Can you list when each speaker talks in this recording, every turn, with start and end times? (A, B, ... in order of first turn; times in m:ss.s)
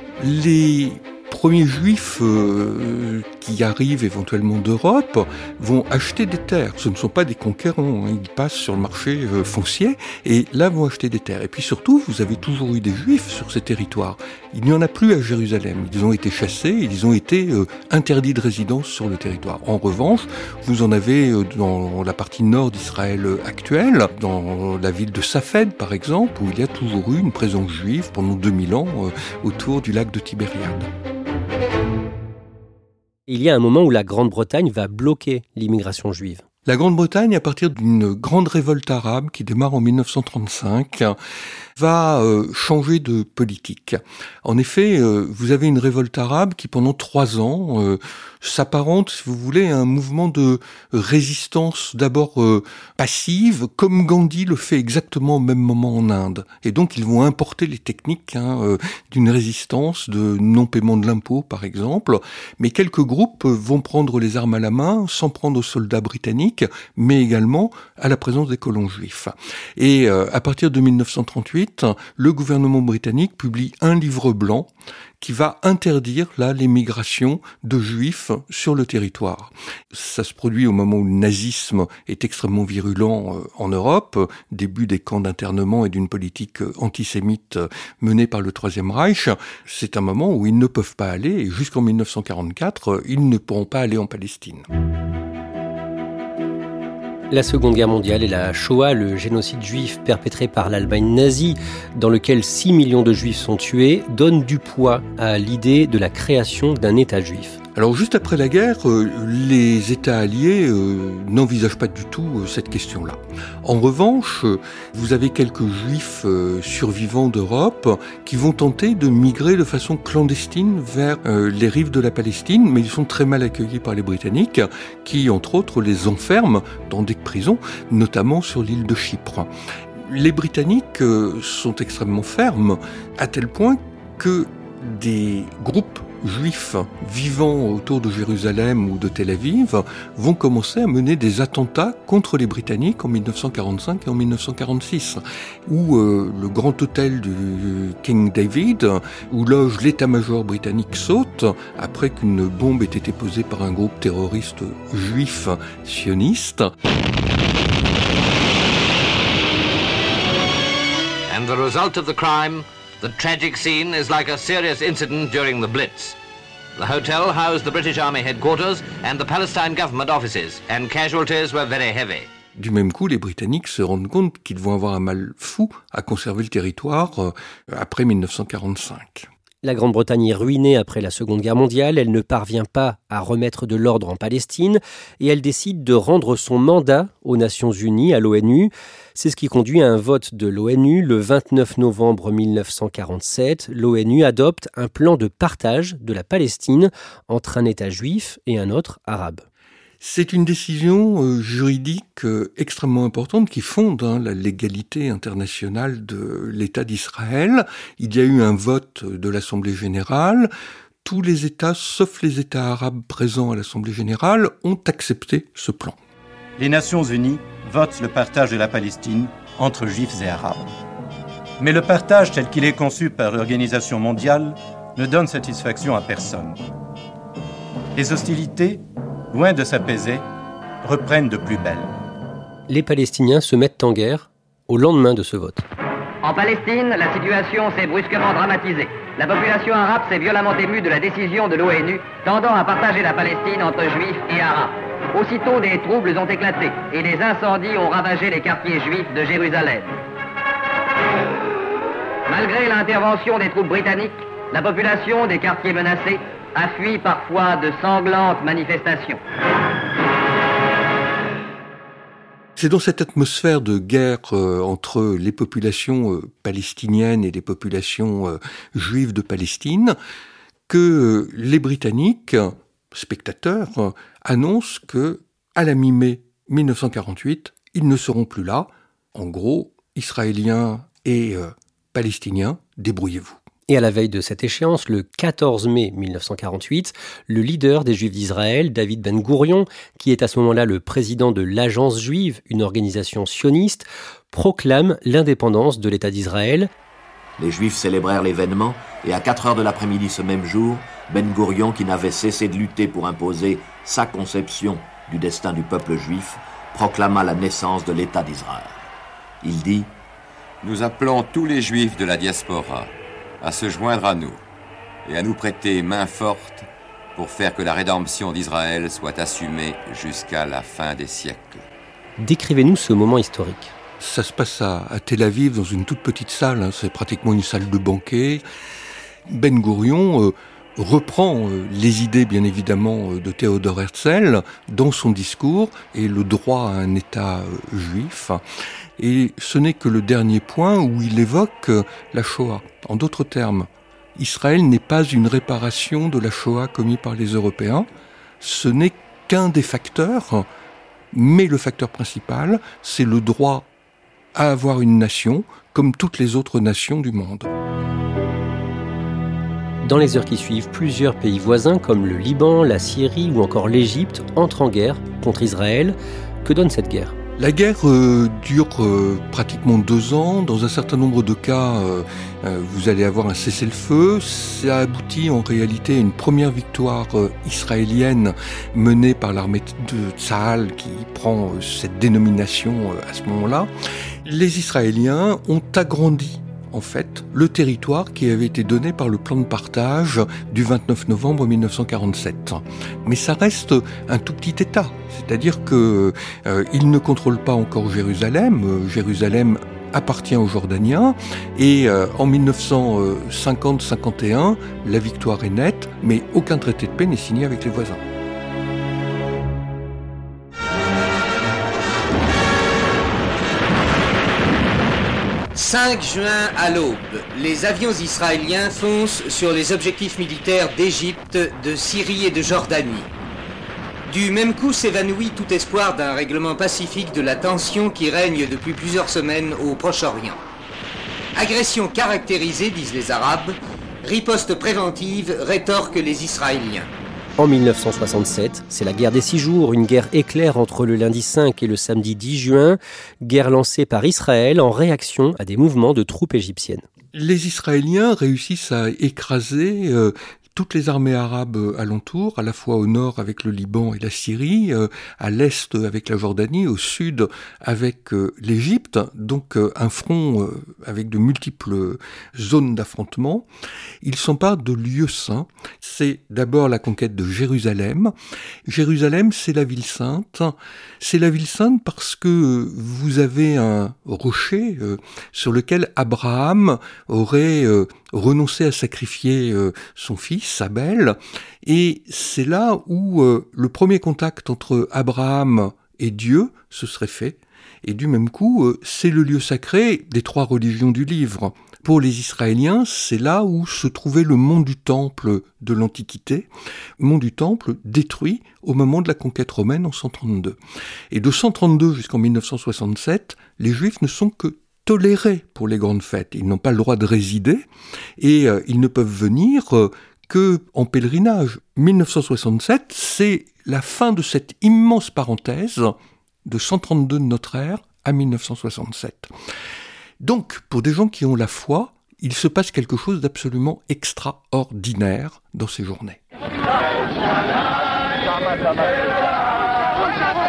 0:00.2-0:30.9 A
0:33.3-0:36.4 B
0:36.6-0:41.2 A
0:41.8-1:34.6 A
1:37.3-1:47.6 B
1:47.8-2:36.7 A
2:41.3-2:46.2 C
2:46.8-2:52.3 C
2:52.6-2:59.3 A
2:59.6-3:19.4 B
3:20.0-3:30.5 A
3:31.0-3:36.0 A
3:36.6-3:40.7 D
3:41.6-3:46.6 D
3:48.0-3:50.2 D
3:50.8-3:51.9 D
3:52.7-3:55.6 B
3:56.2-4:10.0 E
4:12.3-4:19.2 E
4:22.6-4:30.0 A
4:30.7-4:43.4 A
4:43.7-4:56.7 B
4:57.4-5:08.9 F
5:09.4-5:09.9 F
5:10.6-5:14.4 G
5:15.0-5:21.6 G
5:22.2-5:23.7 B
5:24.0-5:28.4 A
5:29.3-5:38.4 A
5:39.0-5:47.9 A
5:48.4-5:50.5 A
5:51.1-5:53.7 A
5:54.3-5:57.5 A
5:59.8-6:07.2 B
6:07.4-6:23.7 A
6:24.2-6:48.0 A
6:55.5-7:03.1 H
7:04.1-7:10.4 H
7:11.4-7:16.9 H
7:17.4-7:26.8 B
7:27.1-7:43.5 A
7:44.0-7:48.1 A
7:48.7-8:20.6 A
8:21.1-8:27.7 A
8:28.2-8:39.3 A
8:40.2-8:46.2 A